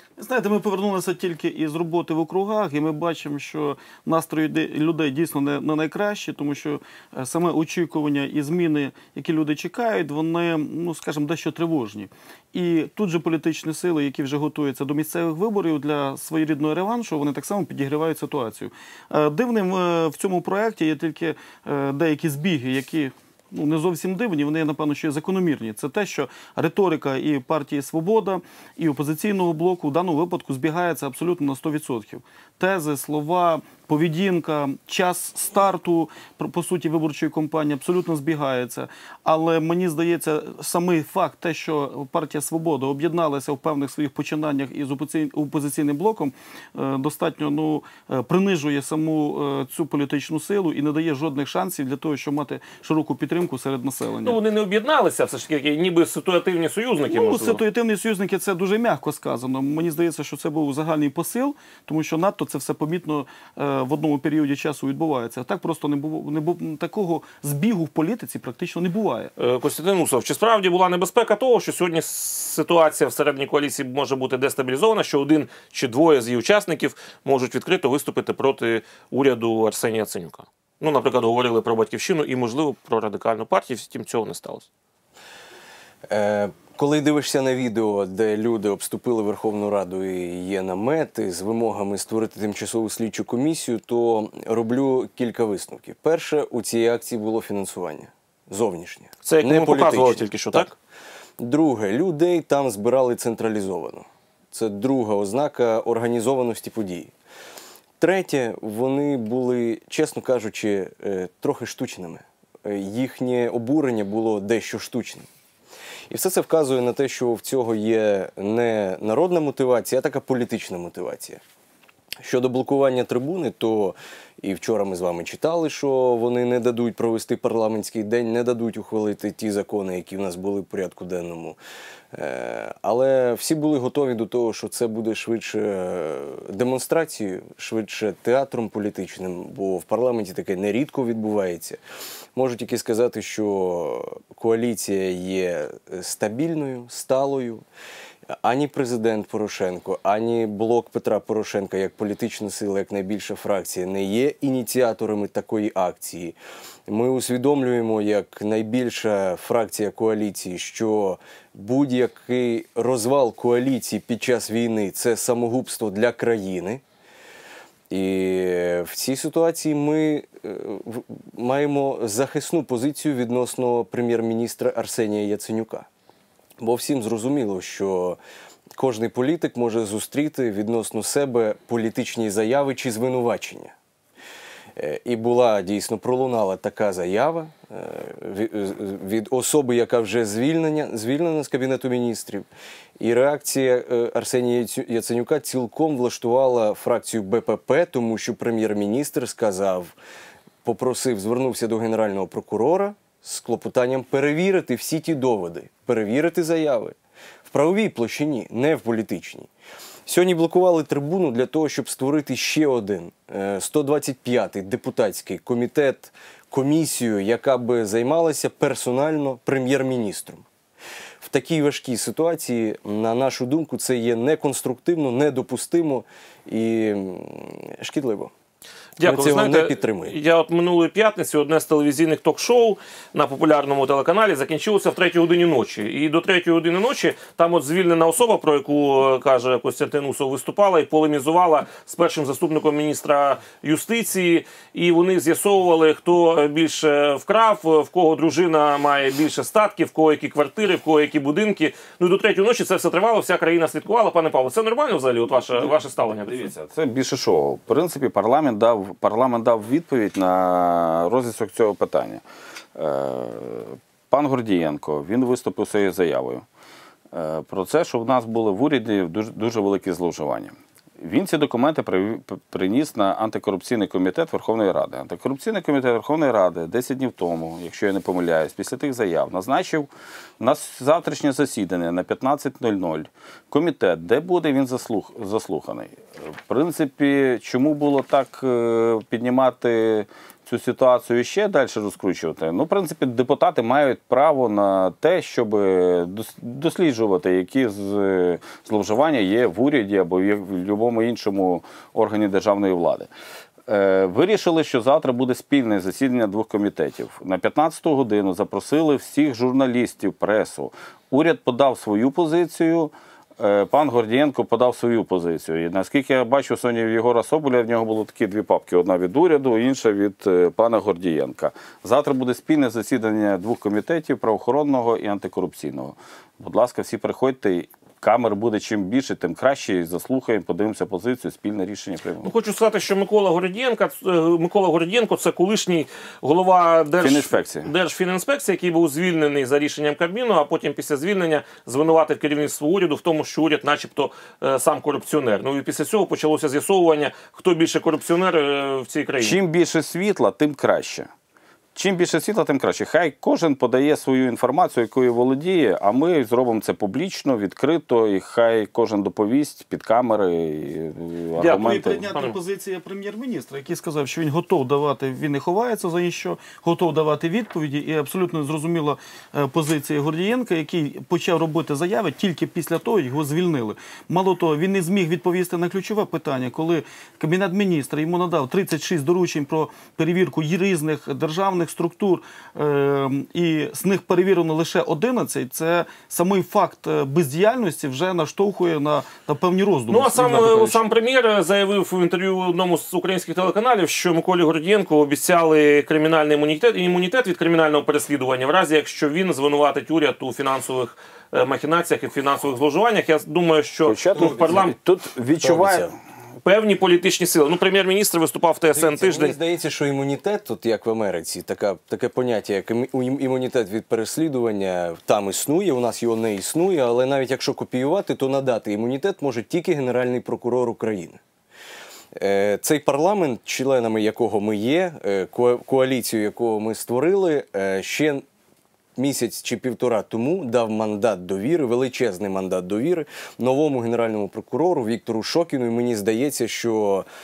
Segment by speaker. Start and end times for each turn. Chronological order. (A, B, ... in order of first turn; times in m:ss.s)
0:00.2-0:54.4 A
0:54.2-0:57.6 B
0:57.1-1:09.3 A
1:09.4-1:24.7 B
1:26.1-1:40.7 C
1:39.3-1:40.7 B
1:41.4-1:47.1 C
1:48.0-1:55.3 C
1:56.1-2:01.4 C
2:02.2-2:11.6 C
2:12.1-2:21.8 C
2:22.4-2:27.6 C
2:28.3-2:36.4 C
2:36.9-2:46.8 C
2:47.9-2:55.9 C
2:56.6-2:58.2 C
2:58.8-3:03.7 C
3:04.8-3:12.5 C
3:13.0-3:19.9 C
3:20.6-3:27.0 C
3:27.5-3:29.5 C
3:30.1-3:40.5 C
3:41.2-3:48.3 C
3:49.0-3:50.2 C
3:49.0-4:16.5 B
4:15.6-4:22.2 D
4:22.8-4:26.4 D
4:27.1-4:39.9 D
4:40.4-5:03.1 D
5:03.7-5:32.3 D
5:32.2-5:49.4 B
5:37.0-5:37.7 D
5:49.2-5:51.1 D
5:51.8-6:02.1 D
6:01.4-6:02.4 B
6:01.4-6:30.8 A
6:29.9-6:44.8 B
6:43.9-6:45.9 D
6:44.1-6:44.7 C
6:45.4-6:45.9 C
6:46.4-6:49.4 B
6:48.7-7:01.2 C
7:02.2-7:08.2 C
7:09.0-7:17.0 C